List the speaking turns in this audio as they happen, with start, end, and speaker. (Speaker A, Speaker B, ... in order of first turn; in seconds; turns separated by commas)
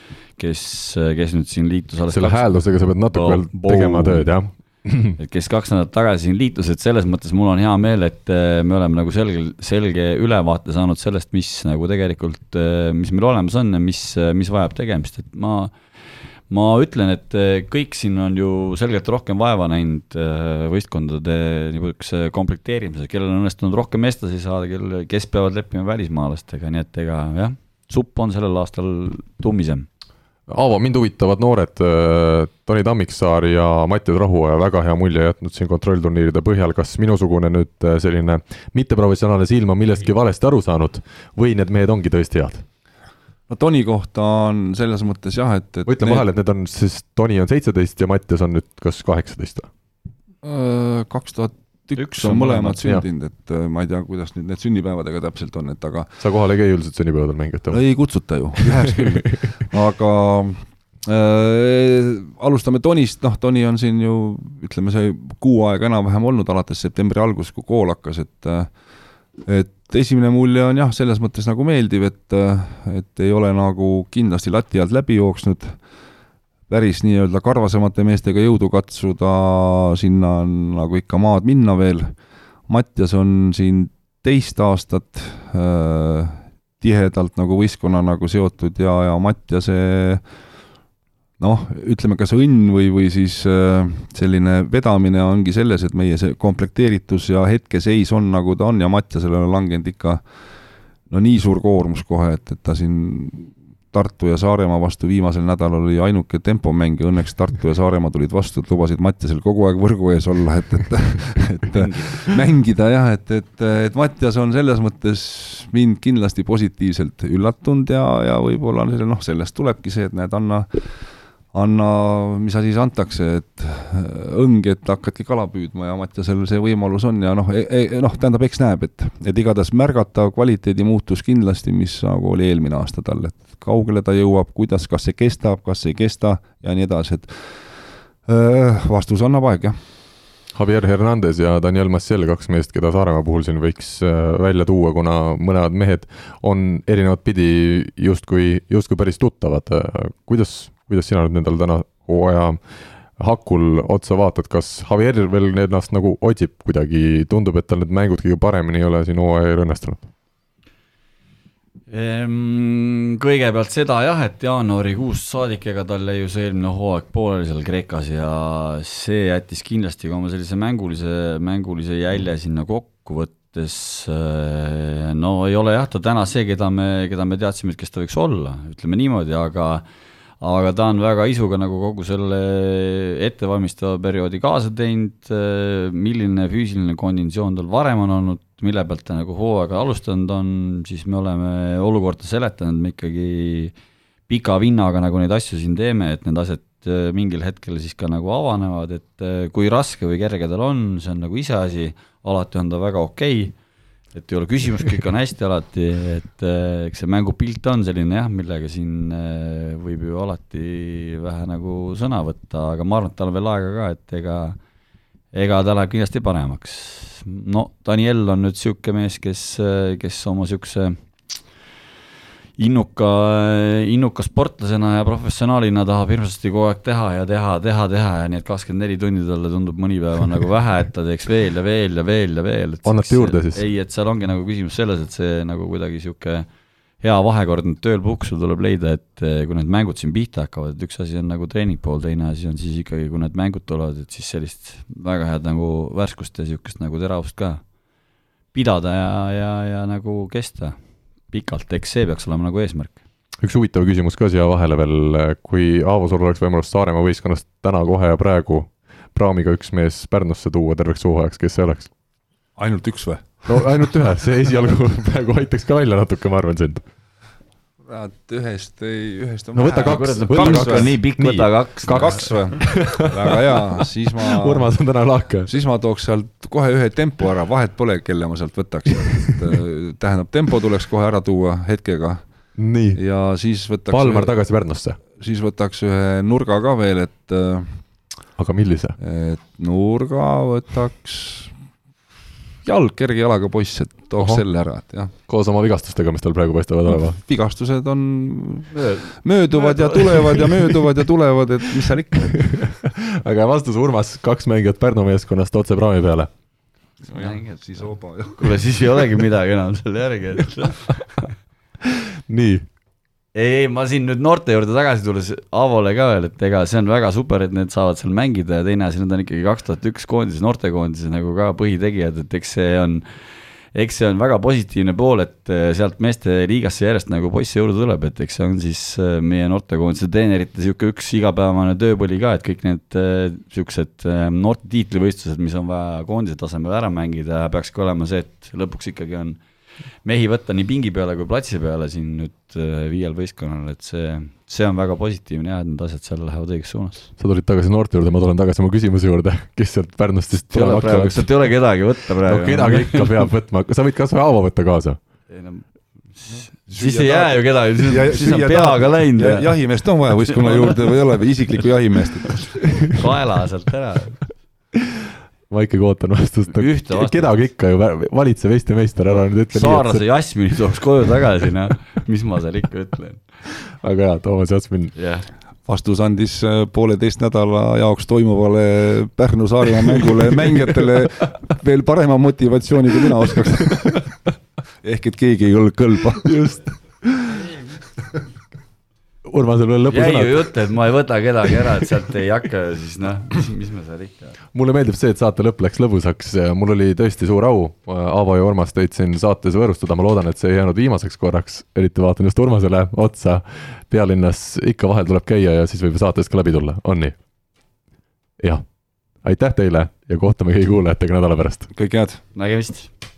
Speaker A: 0.4-4.3, Speaker B: 2.1-5.2, Speaker A: 5.2-15.7, Speaker A: 16.5-29.9, Speaker B: 30.5-42.6, Speaker C: 43.5-46.3, Speaker B: 45.9-49.7, Speaker C: 50.4-56.1, Speaker B: 52.2-53.0, Speaker B: 56.2-57.8, Speaker C: 57.7-68.7, Speaker C: 69.4-75.8, Speaker C: 76.7-82.1, Speaker C: 82.7-90.2, Speaker C: 91.4-100.2, Speaker C: 101.1-137.5, Speaker C: 138.3-139.8, Speaker B: 140.6-152.6, Speaker B: 153.2-160.1, Speaker A: 161.9-179.8, Speaker A: 180.4-193.7, Speaker A: 194.3-203.6, Speaker A: 204.1-214.6, Speaker A: 215.3-221.0, Speaker A: 222.6-236.5, Speaker B: 232.8-233.6, Speaker A: 237.0-247.6, Speaker A: 248.5-250.8, Speaker A: 251.3-253.0, Speaker B: 253.4-261.9, Speaker C: 262.6-263.7, Speaker B: 263.5-266.8, Speaker C: 267.8-270.9, Speaker B: 269.6-275.5, Speaker A: 269.6-272.2, Speaker C: 271.9-274.7, Speaker C: 275.5-282.2, Speaker B: 282.6-283.0, Speaker C: 282.9-284.3, Speaker B: 283.9-285.0, Speaker C: 285.1-287.8, Speaker B: 288.4-288.9, Speaker C: 289.0-291.5, Speaker C: 292.6-295.1, Speaker B: 295.3-297.2, Speaker C: 296.9-302.7, Speaker A: 298.7-300.3, Speaker B: 302.4-306.3, Speaker C: 307.1-308.6, Speaker A: 307.1-307.8, Speaker A: 308.4-311.2, Speaker B: 312.3-312.6, Speaker A: 313.3-323.1, Speaker A: 323.7-339.4, Speaker A: 340.0-347.1, Speaker B: 347.2-351.3, Speaker A: 350.3-353.3, Speaker B: 352.2-355.0, Speaker A: 355.3-359.5, Speaker C: 356.7-362.8, Speaker A: 360.2-360.9, Speaker A: 362.9-364.2, Speaker B: 365.5-370.0, Speaker A: 366.5-367.4, Speaker A: 369.1-373.2, Speaker B: 373.7-374.9, Speaker A: 374.9-375.3, Speaker C: 375.6-384.1, Speaker C: 384.8-386.3, Speaker B: 386.2-387.4, Speaker B: 389.3-390.5, Speaker A: 389.9-394.4, Speaker B: 394.5-407.1, Speaker B: 409.2-411.7, Speaker C: 411.7-412.2, Speaker A: 412.3-412.9